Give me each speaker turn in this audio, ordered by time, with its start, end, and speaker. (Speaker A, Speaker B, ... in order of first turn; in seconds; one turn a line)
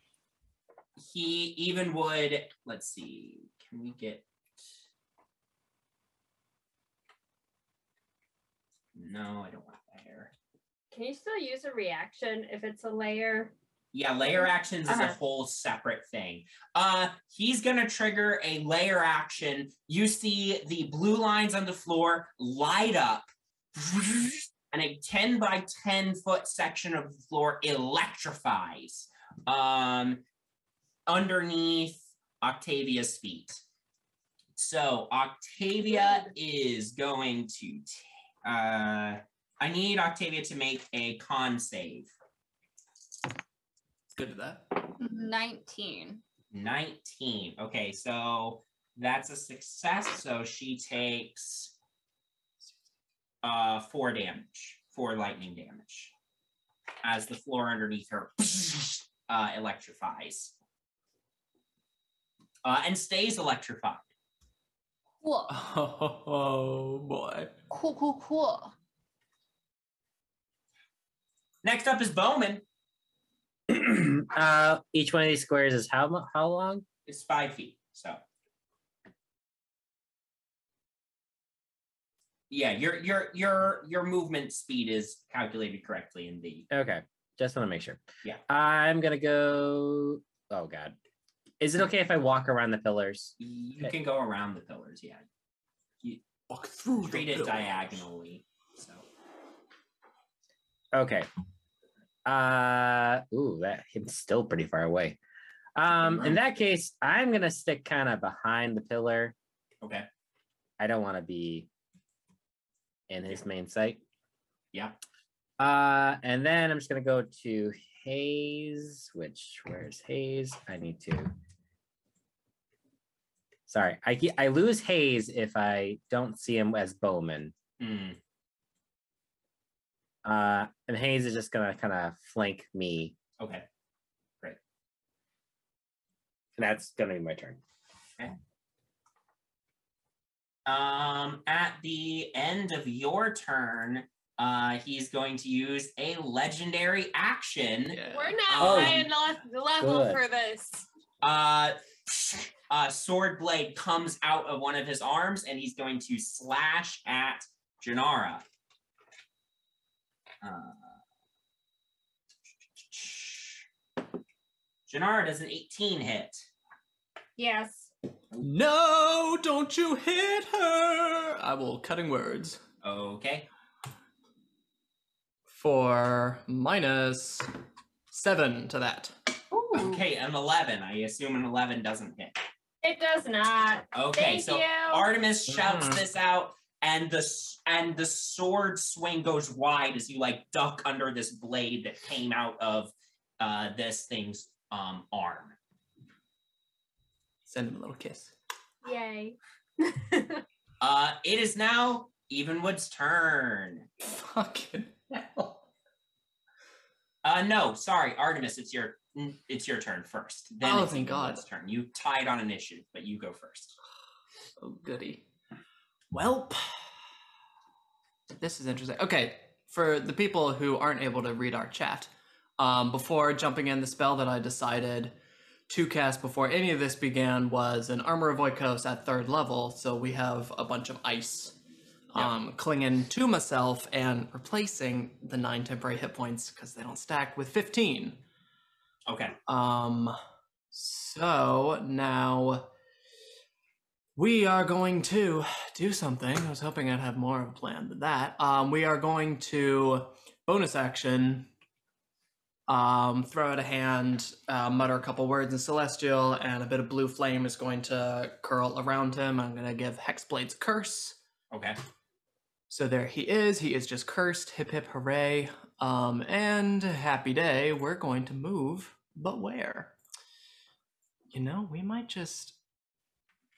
Speaker A: 1.0-4.3
Speaker A: 8.9-10.3
Speaker B: 10.9-13.6
Speaker A: 13.9-30.2
Speaker B: 14.2-15.2
Speaker A: 31.1-33.6
Speaker A: 34.6-42.1
Speaker C: 44.1-44.6
Speaker D: 45.0-46.2
Speaker A: 46.5-51.7
Speaker A: 53.4-56.1
Speaker A: 57.0-60.5
Speaker A: 62.6-64.1
Speaker D: 65.2-65.5
Speaker C: 65.5-67.5
Speaker D: 67.7-68.7
Speaker A: 71.6-72.6
Speaker E: 73.7-76.8
Speaker A: 77.1-78.2
Speaker A: 82.5-86.7
Speaker E: 86.7-91.0
Speaker E: 91.6-93.9
Speaker A: 93.4-95.2
Speaker C: 96.5-98.0
Speaker A: 97.0-99.0
Speaker E: 100.9-101.3
Speaker E: 102.2-105.2
Speaker E: 105.8-109.3
Speaker A: 106.0-106.4
Speaker A: 109.8-110.1
Speaker E: 110.8-111.7
Speaker E: 113.1-114.0
Speaker A: 114.7-115.0
Speaker E: 115.6-121.3
Speaker E: 123.7-127.5
Speaker A: 127.8-128.2
Speaker E: 130.2-133.2
Speaker A: 133.4-133.7
Speaker E: 136.6-137.6
Speaker A: 140.7-149.1
Speaker C: 147.9-148.7
Speaker F: 148.1-150.9
Speaker E: 148.6-149.1
Speaker E: 149.8-150.2
Speaker A: 151.2-158.4
Speaker A: 160.4-160.9
Speaker A: 162.8-163.7
Speaker A: 164.9-166.5
Speaker B: 167.4-167.9
Speaker C: 168.4-172.6
Speaker A: 172.8-173.5
Speaker C: 175.5-177.5
Speaker C: 178.1-179.2
Speaker D: 179.5-180.0
Speaker A: 179.7-182.4
Speaker B: 182.8-185.1
Speaker A: 183.9-195.6
Speaker C: 185.5-186.0
Speaker C: 197.5-198.3
Speaker B: 198.8-200.4
Speaker A: 200.8-203.9
Speaker C: 204.0-205.6
Speaker A: 207.2-213.8
Speaker C: 210.6-211.4
Speaker C: 214.6-215.2
Speaker C: 216.1-216.8
Speaker C: 218.4-225.2
Speaker C: 225.7-231.6
Speaker C: 232.1-238.2
Speaker A: 239.1-239.4
Speaker C: 239.5-240.2
Speaker C: 240.7-242.7
Speaker C: 244.2-251.5
Speaker C: 252.7-261.2
Speaker A: 261.5-261.8
Speaker C: 262.7-269.9
Speaker C: 271.3-272.6